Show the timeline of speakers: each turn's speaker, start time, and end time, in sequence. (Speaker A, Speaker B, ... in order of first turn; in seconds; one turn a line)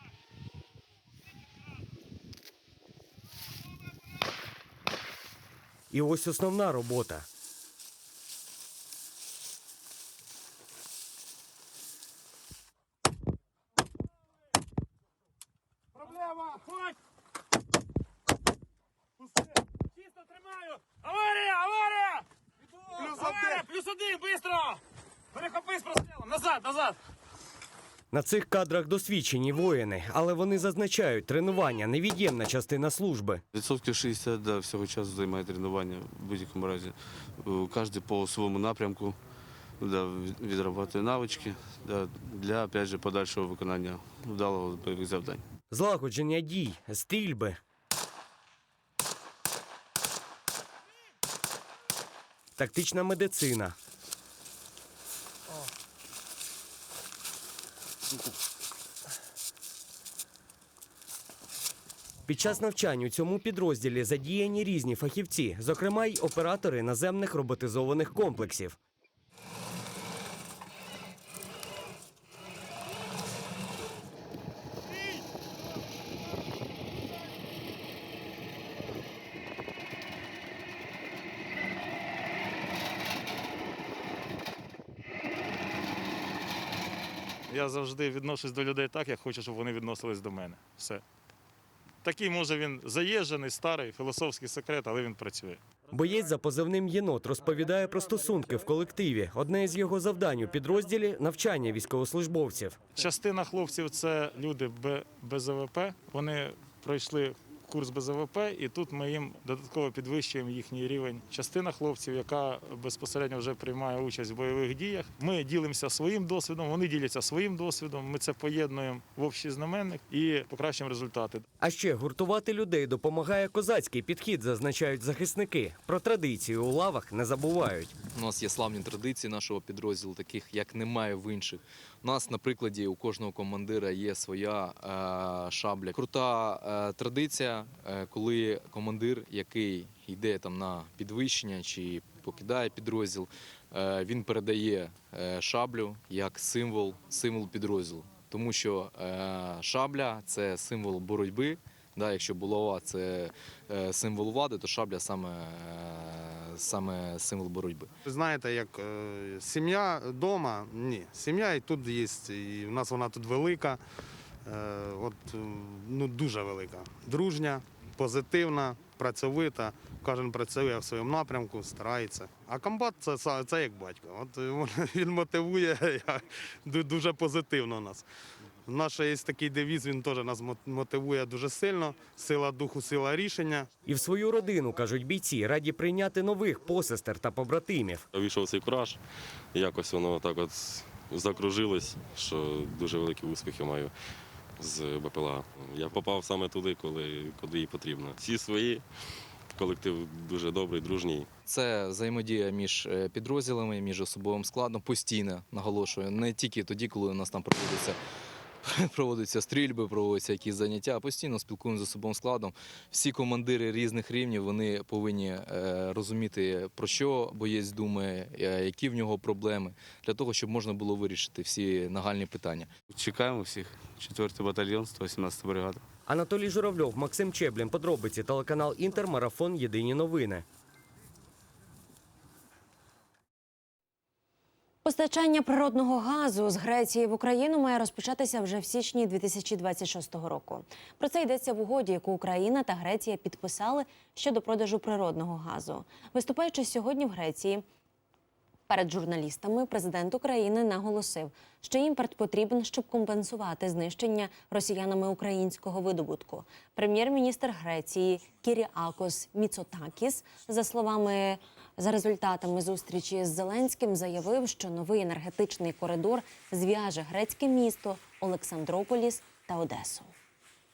Speaker A: 5.9-7.3
Speaker B: 20.5-22.2
Speaker B: 23.0-24.8
Speaker B: 25.4-26.9
Speaker A: 28.1-33.4
Speaker C: 33.6-36.9
Speaker D: 33.7-36.9
Speaker C: 37.5-39.1
Speaker D: 37.9-39.1
Speaker C: 39.8-45.4
Speaker D: 40.5-45.4
Speaker A: 45.7-47.6
Speaker A: 52.6-53.8
Speaker A: 62.3-68.8
Speaker B: 87.5-91.0
Speaker B: 92.0-95.6
Speaker A: 95.9-102.8
Speaker B: 103.0-121.5
Speaker A: 121.6-127.9
Speaker E: 128.2-157.9
Speaker D: 158.1-163.8
Speaker D: 164.5-178.0
Speaker D: 178.7-183.7
Speaker A: 183.9-188.1
Speaker F: 188.1-189.0
Speaker F: 189.5-193.9
Speaker F: 194.6-198.8
Speaker F: 199.6-201.3
Speaker E: 201.5-208.0
Speaker E: 208.7-222.7
Speaker C: 223.0-225.8
Speaker D: 223.8-224.2
Speaker D: 225.3-225.7
Speaker A: 226.1-230.4
Speaker G: 234.8-247.6
Speaker G: 248.7-270.1